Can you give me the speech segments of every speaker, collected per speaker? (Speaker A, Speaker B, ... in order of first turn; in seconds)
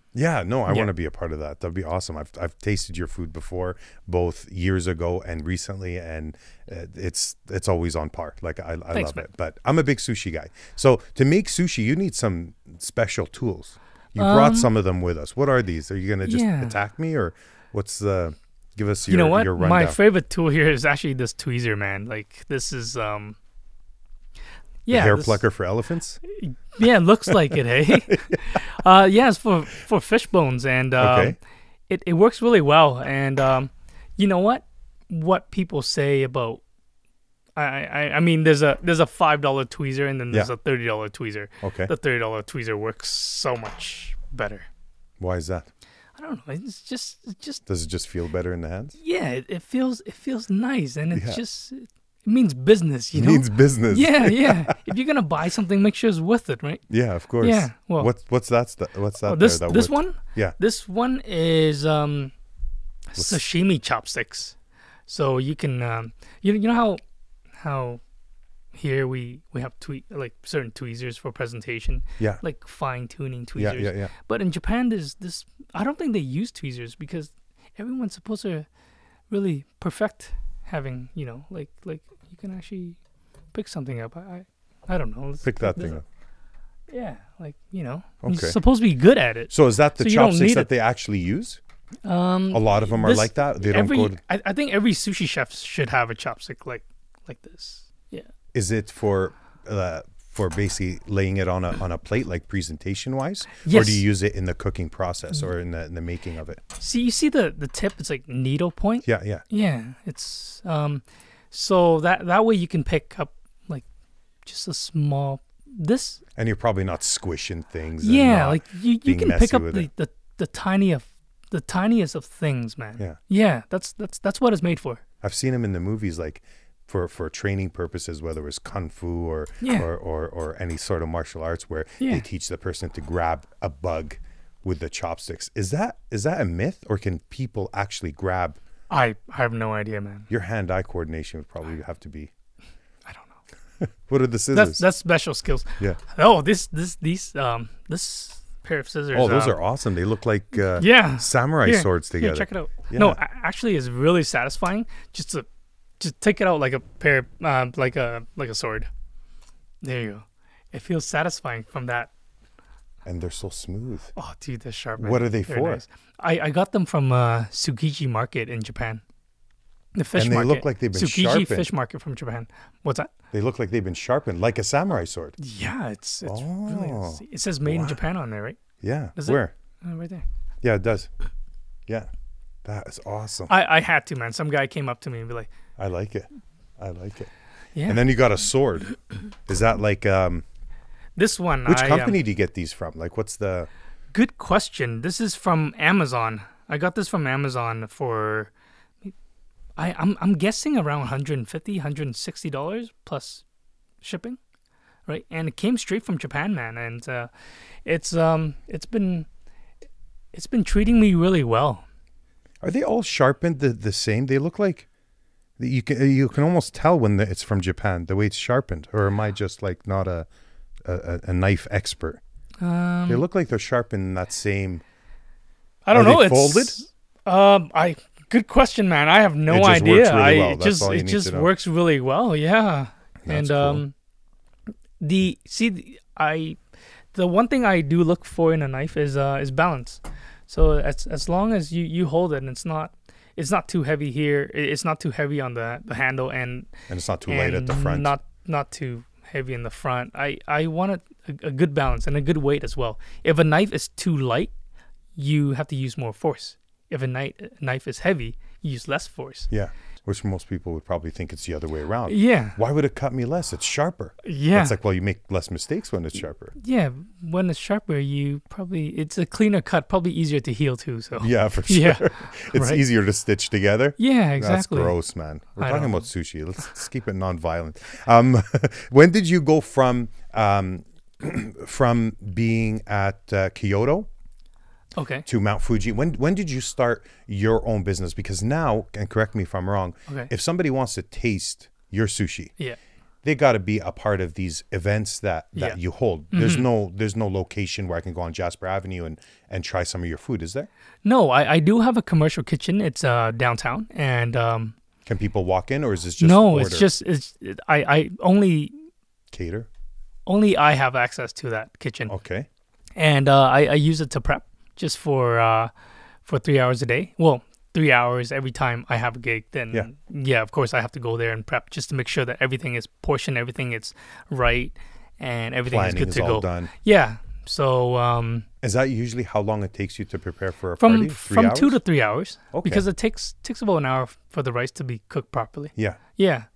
Speaker A: 0.1-20.0, 24.9-26.2, 27.3-28.6, 31.0-31.4, 41.6-41.9, 45.2-45.7, 47.6-49.0, 51.1-51.4, 53.1-54.9, 56.9-60.5, 73.5-74.1, 85.4-86.0, 88.2-88.6, 89.5-91.6, 92.5-94.2, 98.5-106.6, 109.0-109.4, 116.3-119.9, 125.2-138.6, 140.3-142.3, 143.8-144.8, 149.1-153.2, 163.0-164.1, 165.0-165.8, 170.2-171.7, 173.3-175.4, 176.2-178.0, 178.8-179.5, 180.6-181.1, 182.6-183.5, 185.8-186.3, 186.8-187.3, 187.9-190.4, 191.7-193.7, 212.6-214.9, 215.6-220.3, 220.8-222.2, 223.1-224.8, 225.9-226.7, 229.5-231.5, 233.2-233.8, 246.9-248.1, 259.5-266.5, 271.2-284.1, 285.2-292.5, 293.2-300.7, 305.1-306.9, 309.3-309.7, 312.1-312.5, 325.6-326.7, 328.6-331.8, 332.5-332.8, 335.8-336.0
Speaker B: 8.9-9.2, 14.2-14.7, 16.2-16.8, 19.1-23.4, 24.9-25.4, 26.3-31.4, 31.9-36.6, 37.5-44.7, 46.1-47.6, 49.0-56.8, 57.4-58.1, 59.2-62.3, 63.1-64.5, 65.1-67.0, 67.6-68.0, 68.7-78.7, 79.3-83.0, 83.5-86.0, 86.9-90.7, 92.0-98.3, 103.6-104.0, 106.8-113.8, 114.4-116.2, 118.0-125.0, 129.6-129.9, 138.9-140.3, 143.1-143.4, 144.5-149.6, 150.8-155.4, 156.0-158.9, 159.8-162.1, 164.2-169.0, 169.9-173.1, 175.4-178.6, 179.2-180.2, 183.5-185.5, 187.8-188.0, 191.2-192.2, 194.1-198.5, 199.8-203.4, 204.0-204.4, 205.1-207.3, 207.8-209.3, 210.3-211.8, 222.6-223.2, 225.8-233.9, 235.0-236.6, 237.1-246.7, 247.3-254.5, 255.2-259.5, 262.1-262.6, 264.2-264.8, 266.6-272.8, 274.0-274.9, 275.6-276.0, 284.9-285.2, 296.3-296.6, 301.0-304.7, 306.2-308.7, 310.2-312.1, 313.0-315.7, 316.2-328.4, 330.8-336.5